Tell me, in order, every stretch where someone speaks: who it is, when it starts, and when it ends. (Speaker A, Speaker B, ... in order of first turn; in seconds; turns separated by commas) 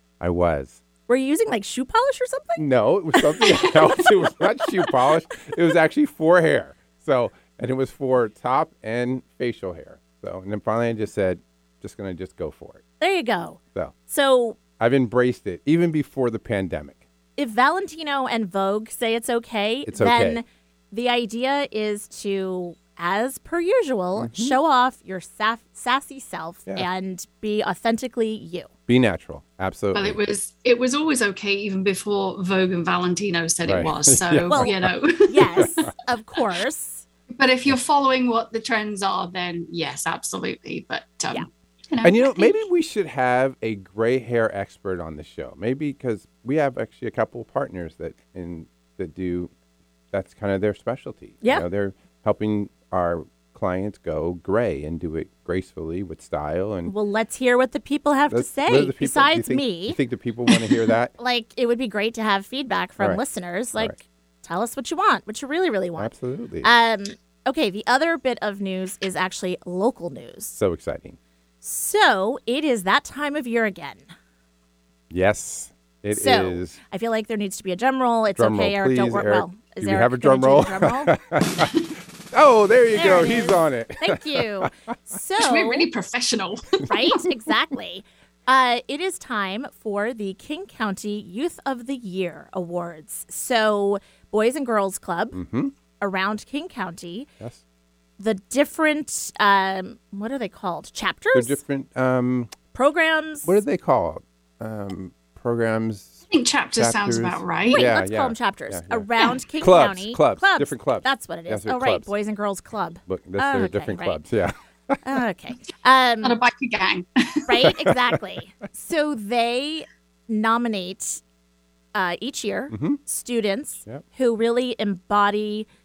Speaker A: 0.2-0.8, Speaker B: 1.1-3.8, Speaker A: 2.6-12.8, Speaker B: 13.0-14.6, Speaker A: 14.8-17.0, Speaker B: 17.4-28.7, Speaker A: 19.9-20.4, Speaker A: 24.2-24.6, Speaker A: 28.9-30.2, Speaker C: 29.9-35.9, Speaker A: 33.6-34.9, Speaker B: 34.5-37.0, Speaker A: 35.6-35.9, Speaker C: 37.3-42.5, Speaker A: 42.0-49.5, Speaker A: 50.1-56.9, Speaker B: 56.9-60.0, Speaker A: 58.3-61.1, Speaker B: 61.2-66.1, Speaker A: 66.0-66.7, Speaker B: 66.6-70.6, Speaker A: 70.6-71.2, Speaker B: 71.6-74.1, Speaker A: 75.1-76.8, Speaker B: 76.1-81.2, Speaker A: 78.4-81.7, Speaker A: 82.3-84.7, Speaker B: 82.9-85.9, Speaker C: 85.4-86.9, Speaker B: 86.9-95.4, Speaker A: 95.3-95.7, Speaker B: 96.0-97.3, Speaker B: 98.2-101.6, Speaker A: 101.3-102.5, Speaker B: 102.7-103.5, Speaker A: 103.5-106.2, Speaker C: 106.3-107.8, Speaker A: 106.8-109.1, Speaker B: 107.7-114.2, Speaker A: 109.6-112.1, Speaker A: 113.1-115.2, Speaker B: 115.0-116.4, Speaker C: 116.2-117.5, Speaker B: 117.5-121.2, Speaker A: 117.9-118.2, Speaker B: 122.0-125.7, Speaker A: 122.7-123.0